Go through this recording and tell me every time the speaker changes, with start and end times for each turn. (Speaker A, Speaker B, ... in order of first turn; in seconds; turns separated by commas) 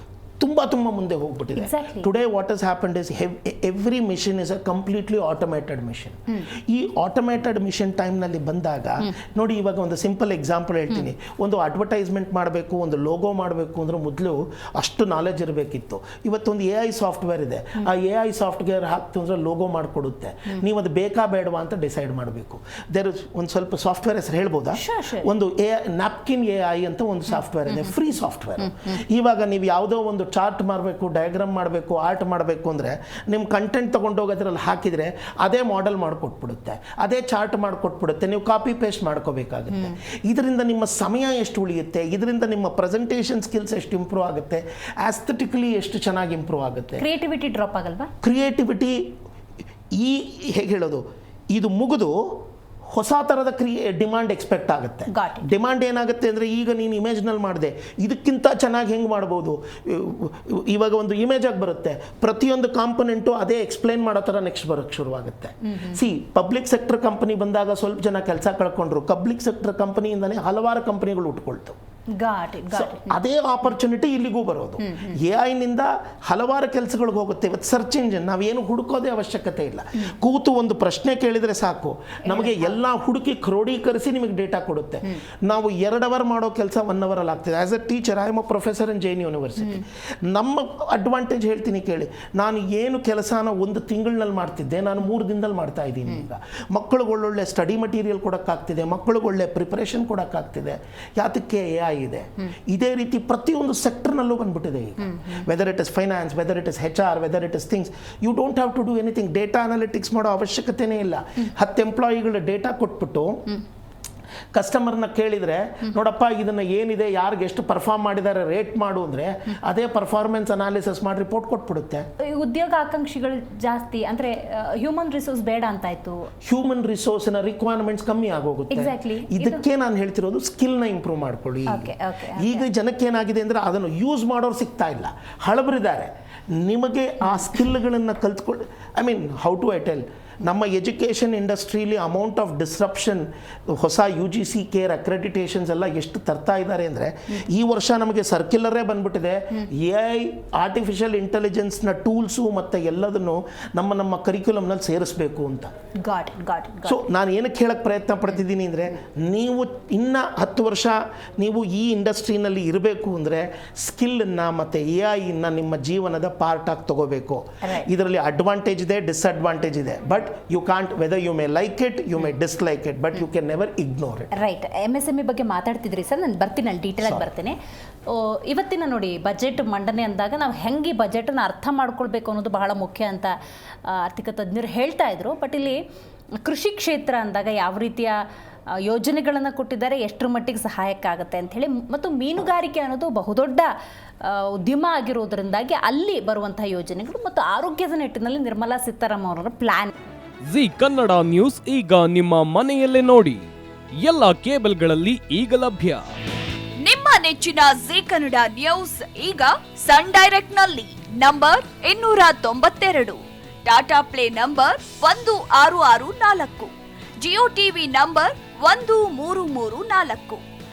Speaker A: 0.4-47.0, Speaker B: 1.6-2.1, Speaker B: 24.7-25.3, Speaker B: 47.0-48.1, Speaker A: 48.2-49.0, Speaker A: 50.0-71.8, Speaker B: 55.1-55.4, Speaker B: 72.2-73.1, Speaker A: 72.7-113.6, Speaker B: 82.3-82.7, Speaker A: 114.5-122.1, Speaker B: 122.2-126.3, Speaker A: 126.4-155.7, Speaker B: 128.7-129.6, Speaker B: 131.7-132.7, Speaker B: 156.0-157.0, Speaker A: 156.8-174.3, Speaker B: 174.3-177.6, Speaker A: 177.0-177.3, Speaker B: 178.1-183.3, Speaker B: 183.8-185.8, Speaker B: 186.4-188.2, Speaker B: 188.8-193.7, Speaker B: 194.2-199.9, Speaker C: 200.4-203.4, Speaker C: 204.0-206.1, Speaker D: 206.8-220.4